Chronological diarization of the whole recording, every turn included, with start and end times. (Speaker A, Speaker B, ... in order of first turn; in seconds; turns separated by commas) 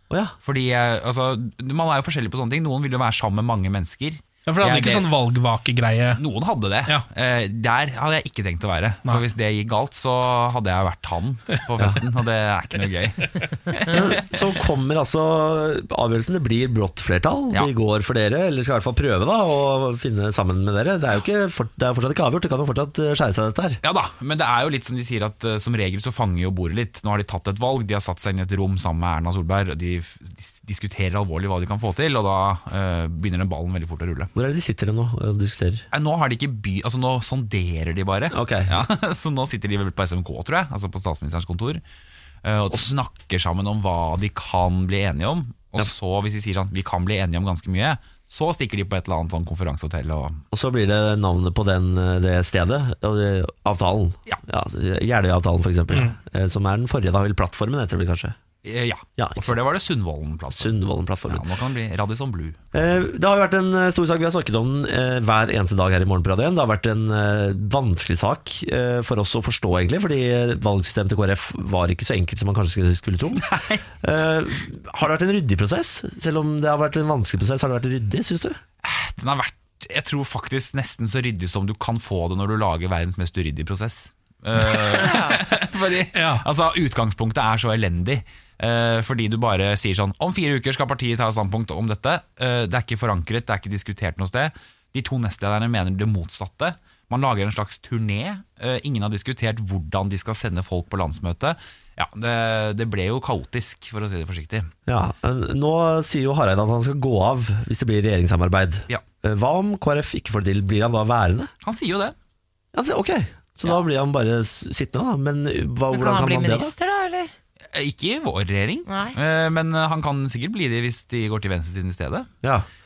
Speaker A: 0.1-0.4, Speaker B: 0.4-5.1, Speaker C: 4.5-6.2, Speaker B: 6.2-14.3, Speaker A: 13.9-23.8, Speaker B: 23.8-34.3, Speaker A: 34.4-35.9, Speaker B: 35.9-41.8, Speaker A: 38.3-38.8, Speaker B: 42.4-50.4, Speaker A: 50.5-58.4, Speaker B: 58.6-60.8, Speaker A: 59.2-59.6, Speaker A: 60.6-61.5, Speaker B: 61.3-62.6, Speaker A: 62.7-73.5, Speaker B: 73.4-73.8, Speaker A: 74.0-78.6, Speaker B: 78.8-104.7, Speaker D: 85.0-85.4, Speaker C: 86.1-86.5, Speaker A: 104.9-111.5, Speaker B: 111.6-112.2, Speaker A: 112.7-116.7, Speaker D: 115.9-117.3, Speaker B: 117.7-122.3, Speaker D: 118.9-119.2